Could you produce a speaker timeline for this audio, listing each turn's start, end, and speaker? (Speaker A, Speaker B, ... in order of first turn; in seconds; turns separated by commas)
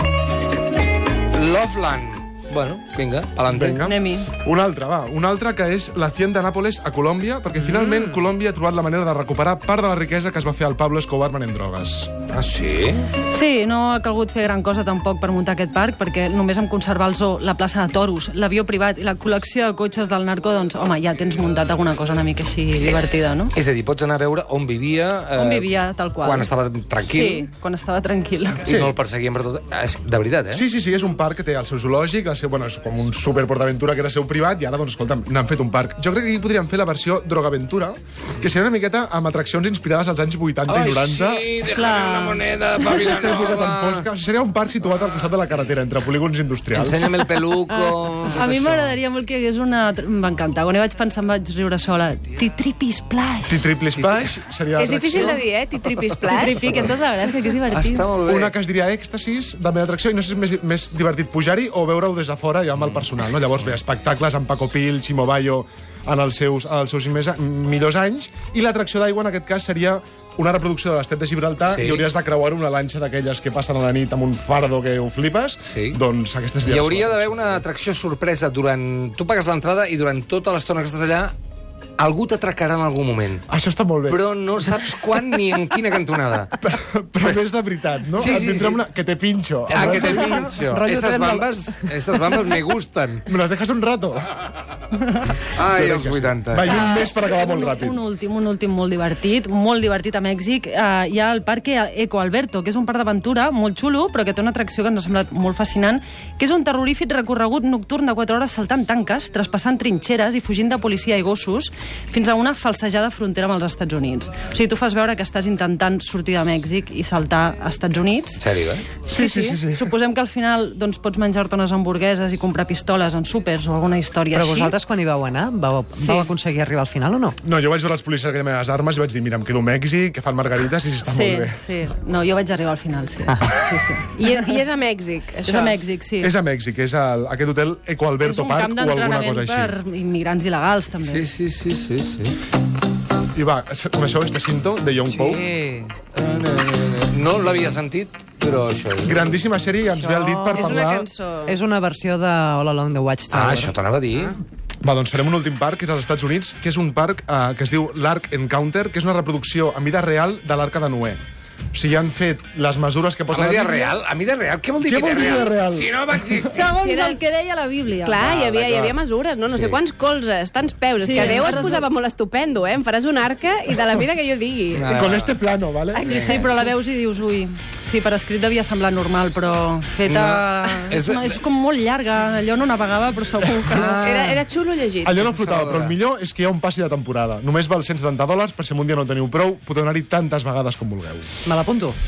Speaker A: 1.3-3.8, Speaker B: 3.5-12.1, Speaker C: 3.8-4.3, Speaker A: 7.6-8.0, Speaker A: 12.3-13.1, Speaker C: 13.3-23.5, Speaker A: 23.5-27.5, Speaker C: 25.4-26.5, Speaker C: 27.1-28.6, Speaker A: 28.6-30.6, Speaker B: 28.6-28.9, Speaker B: 30.5-41.5, Speaker A: 40.7-44.1, Speaker C: 41.7-43.0, Speaker B: 42.9-47.2, Speaker A: 46.7-49.0, Speaker C: 48.3-53.6, Speaker B: 53.5-55.4, Speaker A: 54.0-54.3, Speaker D: 54.8-56.7, Speaker C: 56.3-58.0, Speaker A: 57.7-58.5, Speaker B: 58.2-77.6, Speaker A: 62.8-63.0, Speaker A: 71.7-72.1, Speaker A: 75.7-76.0, Speaker A: 76.6-81.3, Speaker A: 82.0-83.5, Speaker B: 83.5-84.2, Speaker A: 84.1-86.5, Speaker B: 86.6-90.5, Speaker A: 88.2-88.8, Speaker A: 89.7-93.2, Speaker E: 90.0-91.8, Speaker B: 93.2-94.3, Speaker A: 95.5-96.8, Speaker B: 95.7-98.0, Speaker C: 96.7-118.4, Speaker A: 118.4-118.9, Speaker B: 119.1-119.9, Speaker C: 119.1-124.8, Speaker E: 124.3-127.4, Speaker C: 126.0-126.3, Speaker B: 127.4-131.6, Speaker C: 131.1-134.6, Speaker D: 134.2-135.8, Speaker C: 135.4-136.3, Speaker B: 136.2-139.8, Speaker C: 138.2-141.2, Speaker A: 141.0-142.4, Speaker B: 143.3-145.4, Speaker E: 145.1-145.9, Speaker A: 146.1-149.4, Speaker B: 149.0-151.1, Speaker E: 150.0-150.7, Speaker D: 150.6-151.6, Speaker E: 151.4-153.7, Speaker A: 153.3-154.4, Speaker B: 154.8-161.2, Speaker B: 161.7-164.0, Speaker A: 163.3-166.7, Speaker B: 164.8-166.4, Speaker C: 166.5-168.2, Speaker D: 166.7-167.2, Speaker D: 168.0-175.0, Speaker A: 168.2-168.9, Speaker A: 169.5-169.8, Speaker C: 171.0-171.8, Speaker A: 171.1-171.7, Speaker A: 174.7-175.4, Speaker B: 174.8-176.1, Speaker D: 175.9-176.6, Speaker C: 176.0-183.9, Speaker A: 176.1-176.4, Speaker A: 180.0-181.4, Speaker A: 183.6-184.4, Speaker D: 183.8-185.1, Speaker B: 185.0-191.3, Speaker A: 185.1-186.0, Speaker E: 191.4-192.0